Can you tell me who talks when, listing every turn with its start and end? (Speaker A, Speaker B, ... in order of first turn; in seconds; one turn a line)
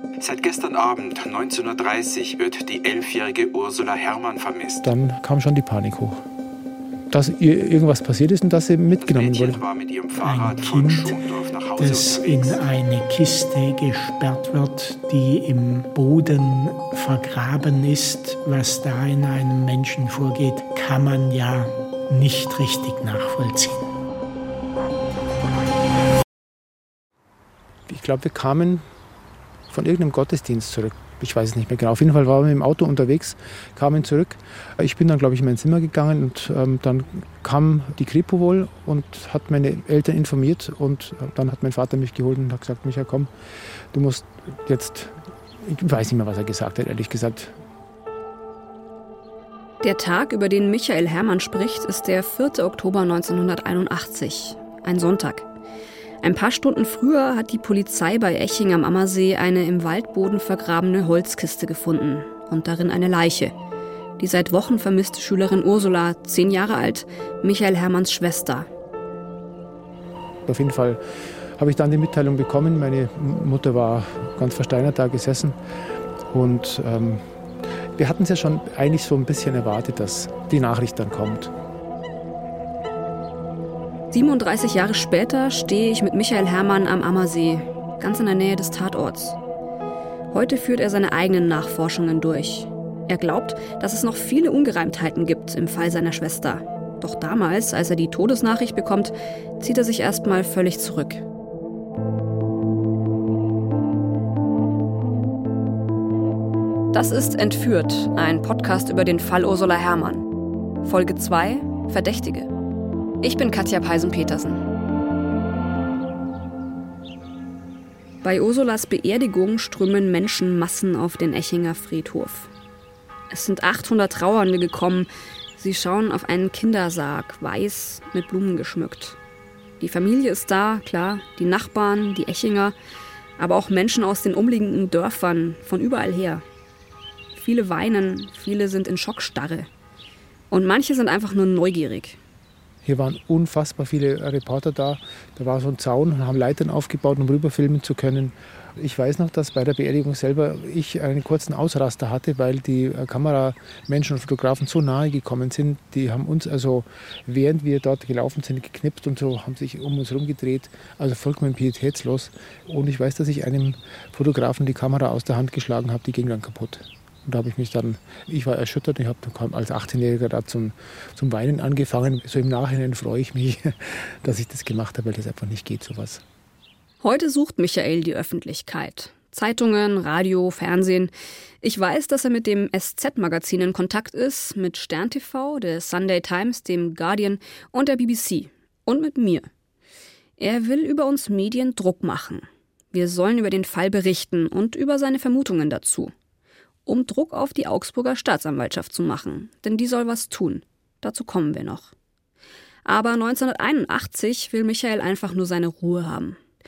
Speaker A: 0.2-4.8
Speaker B: 4.8-6.2
Speaker B: 7.1-9.6
Speaker A: 9.0-12.6
Speaker C: 10.1-11.2
Speaker C: 11.8-23.9
Speaker B: 27.9-28.9
Speaker B: 29.7-43.3
Speaker B: 43.9-47.5
Speaker D: 49.8-55.5
Speaker D: 56.2-63.5
Speaker D: 64.2-68.7
Speaker B: 70.5-71.0
Speaker B: 71.6-75.5
Speaker B: 76.3-77.2
Speaker B: 78.0-81.5
Speaker D: 84.1-89.4
Speaker D: 90.3-101.2
Speaker D: 106.9-110.2
Speaker D: 110.8-112.5
Speaker D: 113.2-114.6
Speaker D: 118.2-122.5
Speaker D: 123.3-129.2
Speaker D: 129.8-132.7
Speaker D: 133.4-136.4
Speaker D: 137.3-139.7
Speaker D: 140.5-142.2
Speaker B: 142.8-176.2
Speaker D: 177.0-189.5
Speaker D: 190.4-196.1
Speaker D: 196.8-201.9
Speaker D: 202.8-206.4